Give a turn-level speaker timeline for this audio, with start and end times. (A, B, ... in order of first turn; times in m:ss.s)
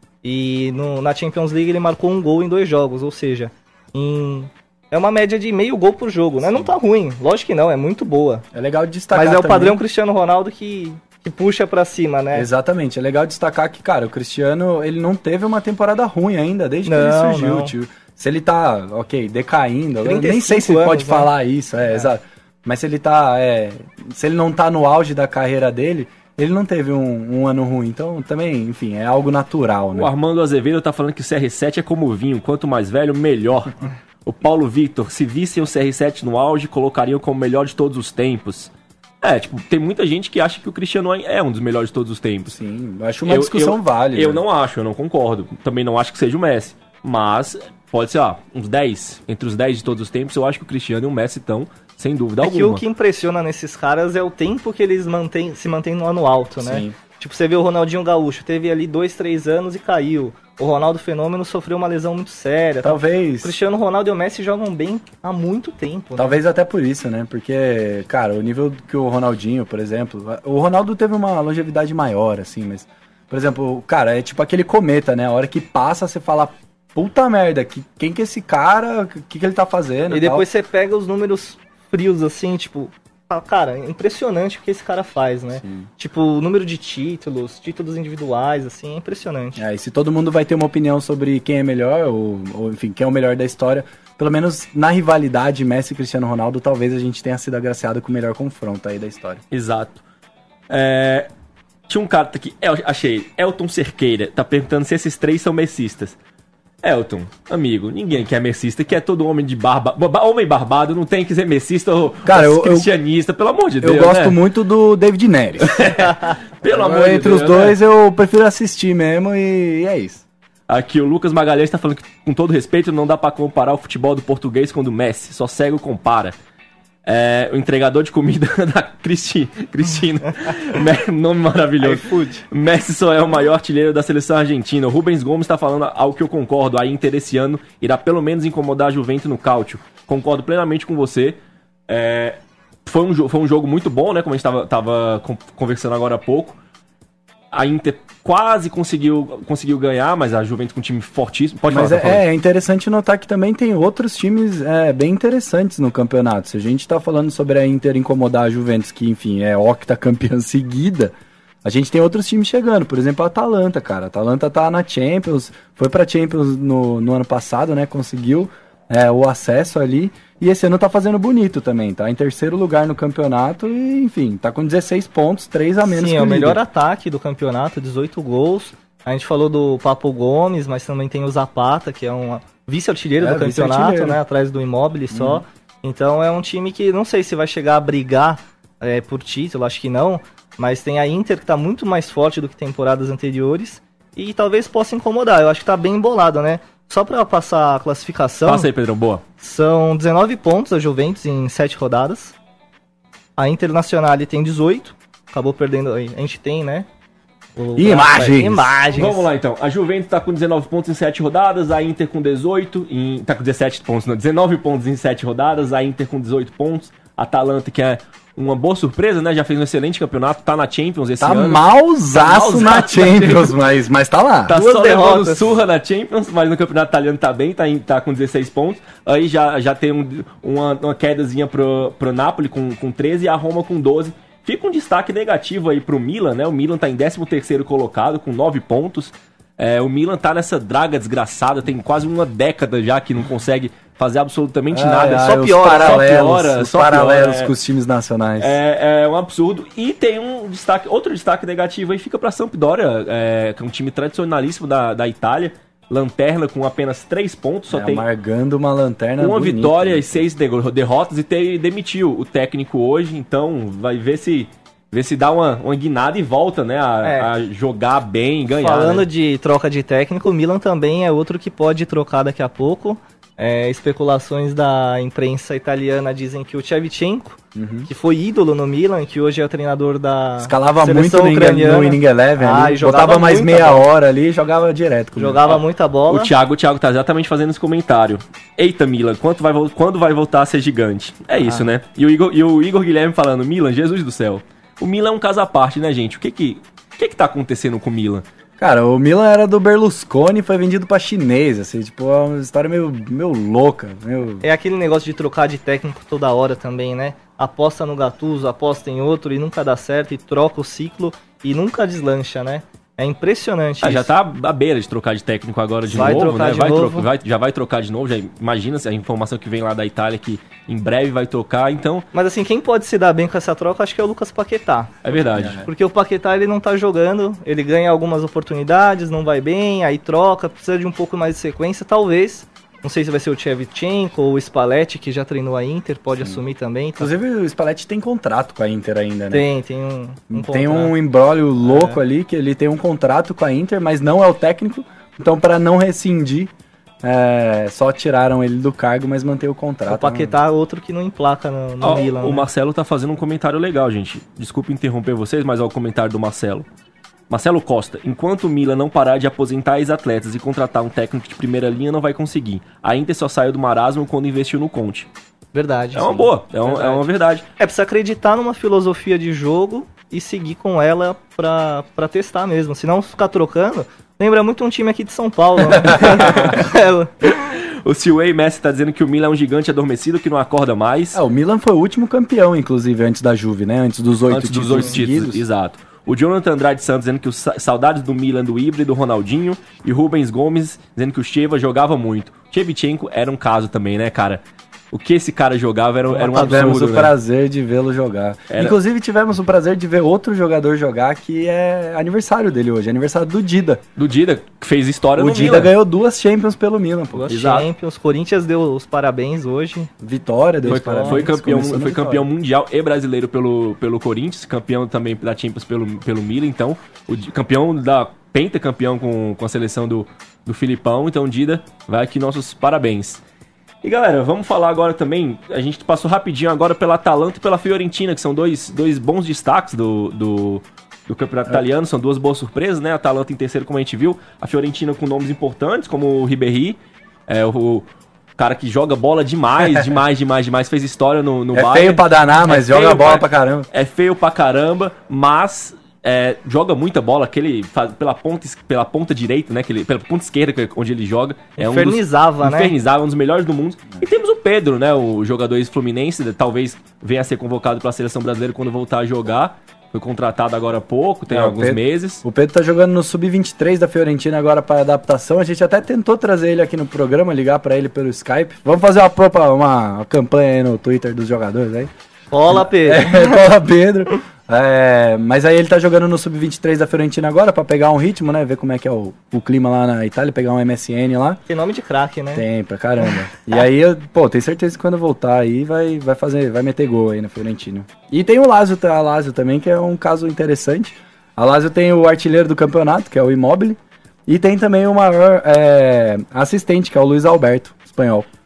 0:00.2-0:08.4 A
0:08.5-0:09.8 B
0:09.1-0:12.5 A
0:12.3-0:30.1 B
0:16.9-0:17.7 A
0:20.0-0:21.3 A
0:30.0-0:42.6 C
0:42.5-0:44.4 B
0:43.3-0:52.8 C
0:52.4-1:06.4 A
0:56.6-0:57.0 B
1:02.8-1:03.6 B
1:06.2-1:20.5 B
1:20.1-1:29.6 A
1:25.6-1:25.9 B
1:29.6-1:39.4 B
1:39.5-1:40.0 C
1:40.7-1:41.3 C
1:41.9-1:46.2 C
1:46.8-1:54.4 C
1:52.2-1:52.9 B
1:53.8-1:56.0 B
1:55.6-1:57.8 C
1:56.7-2:00.2 B
2:00.7-2:06.3 C
2:07.1-2:21.4 C
2:11.8-2:12.4 A
2:21.9-2:26.6 C
2:27.5-2:32.2 C
2:31.7-2:56.6 B
2:55.8-3:18.7 A
3:03.2-3:04.2 B
3:05.1-3:05.4 B
3:18.4-3:19.2 C
3:19.4-3:22.4 A
3:23.4-3:26.9 A
3:27.6-3:29.3 A
3:27.8-3:28.8 B
3:28.9-3:41.6 C
3:41.2-3:44.6 B
3:42.1-3:43.6 C
3:44.5-4:07.5 C
3:44.5-3:45.5 A
4:04.7-4:08.6 B
4:05.2-4:06.0 A
4:08.4-4:18.0 C
4:17.7-4:20.3 B
4:19.2-4:29.1 C
4:27.0-4:27.3 A
4:28.5-4:43.9 A
4:37.6-4:37.9 B
4:40.4-4:45.4 B
4:45.2-4:46.3 A
4:45.5-4:58.2 C
4:58.6-5:04.4 B
5:04.4-5:14.1 A
5:13.8-5:22.1 C
5:15.9-5:17.1 A
5:22.1-5:25.0 A
5:25.0-5:25.6 C
5:25.4-5:25.7 B
5:25.6-5:37.1 A
5:37.0-5:39.5 B
5:39.3-5:40.9 A
5:40.3-5:46.5 B
5:41.6-5:42.0 A
5:47.0-5:50.4 B
5:49.9-5:52.5 A
5:51.8-5:56.6 C
5:57.3-6:05.1 C
6:05.5-6:07.0 A
6:05.9-6:07.5 C
6:07.6-6:17.3 A
6:15.8-6:16.3 B
6:16.1-6:16.6 C
6:17.3-6:21.2 C
6:21.1-6:25.4 B
6:24.3-6:34.4 C
6:34.9-6:37.1 C
6:36.2-6:36.7 A
6:36.2-6:43.8 B
6:38.5-6:38.8 C
6:44.0-6:45.7 C
6:45.2-6:47.3 B
6:47.1-6:49.9 A
6:47.3-6:47.7 C
6:50.0-6:52.3 B
6:50.6-7:03.2 C
6:50.7-6:51.2 A
7:03.8-7:17.8 C
7:18.4-7:42.2 C
7:21.5-7:23.7 B
7:31.6-7:32.7 A
7:41.3-7:51.9 B
7:52.3-7:53.3 A
7:52.5-8:01.4 B
8:01.5-8:02.4 A
8:02.4-8:18.3 B